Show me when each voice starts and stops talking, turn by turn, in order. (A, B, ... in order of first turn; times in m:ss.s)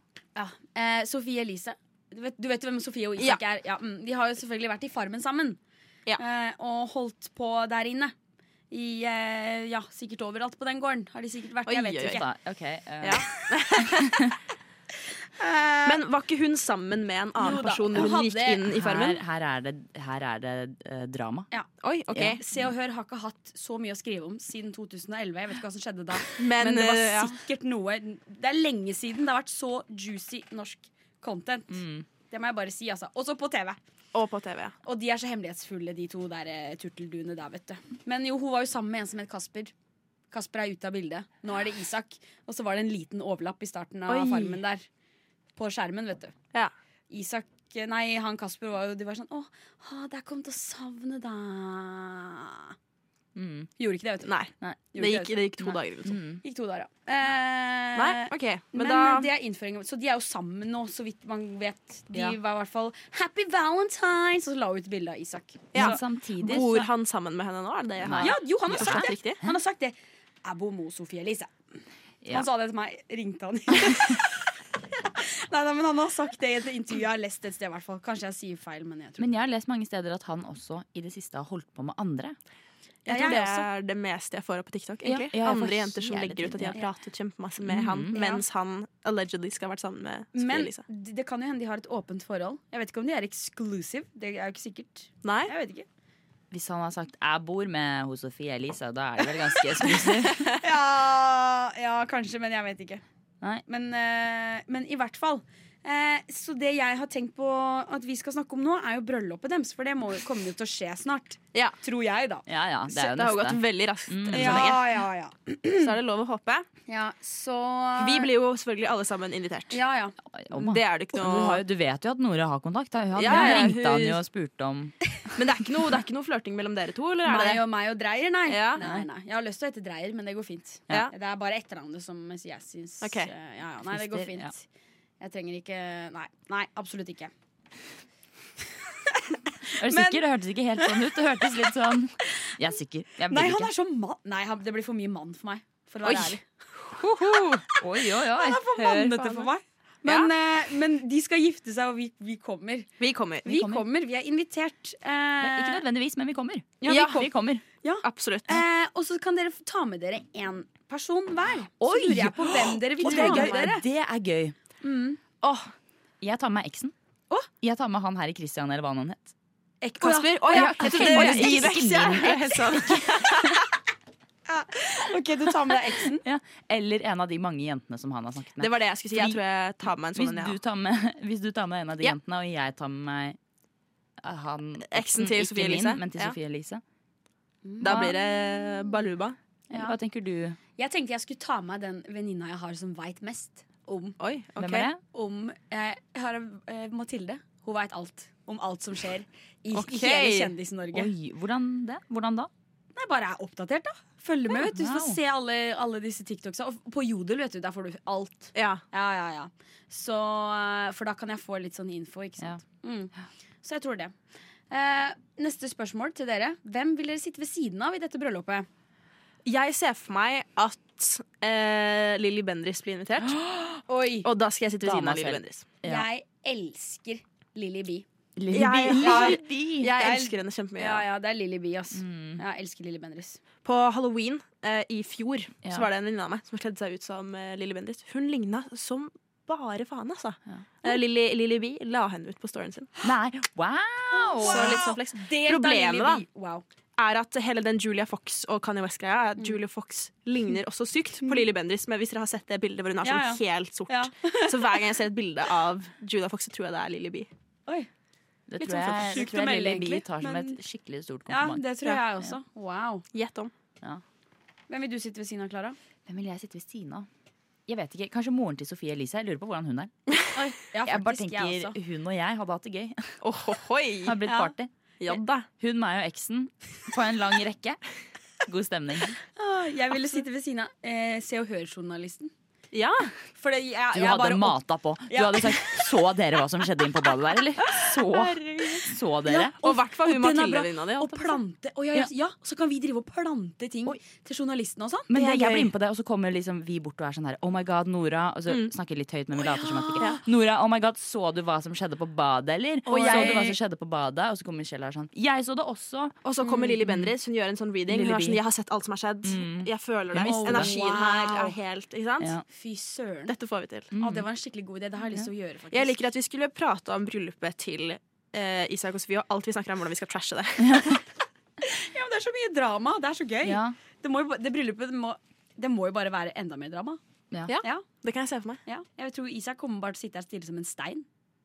0:00.4-0:05.6 A
0:06.2-0:08.1 A
0:08.7-0:12.2 A
0:11.7-0:12.2 B
0:12.0-0:13.2 C
0:13.0-0:14.3 B
0:13.8-0:14.3 C
0:15.4-0:16.0 A
0:15.8-0:19.2 B
0:17.4-0:18.6 A
0:18.7-0:21.5 C
0:21.8-0:22.4 B
0:22.1-0:22.7 C
0:22.4-0:33.8 A
0:26.4-0:27.4 B
0:31.7-0:32.0 C
0:34.1-0:34.8 B
0:34.8-0:39.7 A
0:40.3-0:44.8 A
0:44.1-0:44.6 B
0:45.6-0:46.3 A
0:47.1-0:52.8 A
0:53.4-0:53.7 C
0:53.8-0:54.3 A
0:54.2-0:56.2 B
0:54.9-0:55.7 A
0:56.0-0:56.4 C
0:56.4-1:06.0 A
0:58.0-0:59.3 B
1:05.7-1:09.4 B
1:05.8-1:06.9 C
1:08.0-1:09.1 C
1:08.2-1:11.5 A
1:12.3-1:19.3 A
1:19.2-1:22.4 C
1:23.1-1:23.7 A
1:23.1-1:30.8 B
1:25.0-1:26.8 C
1:27.6-1:28.2 C
1:28.1-1:28.4 A
1:30.3-1:35.9 A
1:35.2-1:35.5 B
1:36.5-1:40.5 C
1:40.6-1:43.0 A
1:43.7-1:52.4 A
1:52.5-1:54.8 C
1:52.9-1:54.8 B
1:54.3-1:55.9 A
1:55.8-1:56.7 B
1:56.9-1:58.3 A
1:58.0-1:59.8 B
1:59.7-2:00.2 A
2:00.3-2:05.2 C
2:00.5-2:01.6 B
2:03.1-2:04.2 B
2:03.3-2:03.6 A
2:05.4-2:07.6 B
2:07.2-2:14.6 A
2:08.5-2:09.0 B
2:13.0-2:13.3 B
2:13.9-2:14.5 C
2:15.2-2:17.3 A
2:19.1-2:20.2 A
2:19.8-2:23.7 C
2:20.8-2:21.1 A
2:22.3-2:22.5 A
2:23.3-2:26.4 A
2:26.0-2:26.4 B
2:26.9-2:27.6 B
2:27.2-2:29.1 C
2:27.7-2:32.9 A
2:28.8-2:29.5 B
2:30.0-2:30.3 B
2:33.0-2:33.7 B
2:33.4-2:35.8 A
2:33.5-2:33.8 C
2:35.4-2:37.6 C
2:36.8-2:37.3 A
2:36.9-2:37.3 B
2:37.8-2:43.8 A
2:38.0-2:38.6 B
2:41.8-2:44.6 C
2:43.0-2:43.7 B
2:44.8-2:45.2 A
2:45.4-2:45.7 B
2:46.2-2:46.9 C
2:47.6-2:49.3 C
2:49.8-2:52.5 A
2:50.0-2:53.6 B
2:50.5-2:52.9 C
2:54.5-2:56.2 A
2:56.2-2:59.4 C
2:58.6-3:00.6 B
3:00.1-3:03.4 C
3:04.2-3:06.8 C
3:04.9-3:06.4 B
3:07.6-3:09.0 A
3:07.8-3:09.4 B
3:07.8-3:08.1 C
3:09.7-3:10.0 A
3:09.7-3:10.6 C
3:10.8-3:14.2 A
3:14.2-3:14.9 B
3:14.6-3:15.0 C
3:15.1-3:21.1 A
3:19.7-3:20.5 B
3:20.9-3:22.5 C
3:23.0-3:34.1 A
3:24.5-3:25.2 C
3:28.6-3:28.8 B
3:34.7-3:38.7 A
3:39.4-3:43.4 B
3:43.9-3:44.3 A
3:44.2-3:45.6 B
3:44.8-3:46.1 C
3:45.8-3:48.1 A
3:48.4-3:49.9 C
3:48.5-3:51.0 B
3:48.9-3:53.4 A
3:52.0-3:52.4 C
3:53.6-4:02.9 B
4:03.0-4:04.8 C
4:04.1-4:06.6 A
4:04.4-4:06.2 B
4:07.0-4:17.3 B
4:13.0-4:14.9 A
4:18.5-4:21.6 C
4:18.6-4:19.2 B
4:18.9-4:20.6 A
4:21.3-4:23.0 A
4:23.1-4:23.5 B
4:24.7-4:25.8 A
4:26.1-4:27.1 C
4:27.7-4:29.9 C
4:30.4-4:31.8 A
4:30.7-4:33.2 C
4:33.2-4:34.2 B
4:34.0-4:34.7 C
4:34.3-4:34.5 A
4:35.0-4:35.5 B
4:35.6-4:37.8 C
4:38.4-4:39.2 C
4:39.4-4:42.3 A
4:42.7-4:43.1 B
4:43.4-4:44.6 A
4:43.9-4:49.5 C
4:45.1-4:45.9 A
4:47.8-4:55.1 A
4:49.6-4:51.4 B
4:55.1-5:06.2 C
4:55.1-4:55.7 B
4:59.4-5:00.2 A
5:02.9-5:03.6 A
5:02.9-5:03.6 B
5:06.2-5:12.3 B
5:06.4-5:06.7 A
5:06.8-5:07.1 C
5:07.9-5:08.4 C
5:09.2-5:10.7 C
5:10.1-5:11.6 A
5:12.5-5:13.3 A
5:13.3-5:13.9 B
5:13.9-5:14.3 C
5:14.0-5:16.0 A
5:15.7-5:21.0 B
5:20.6-5:21.0 C
5:21.6-5:27.0 A
5:23.4-5:23.8 C
5:27.5-5:28.6 B
5:28.7-5:31.1 A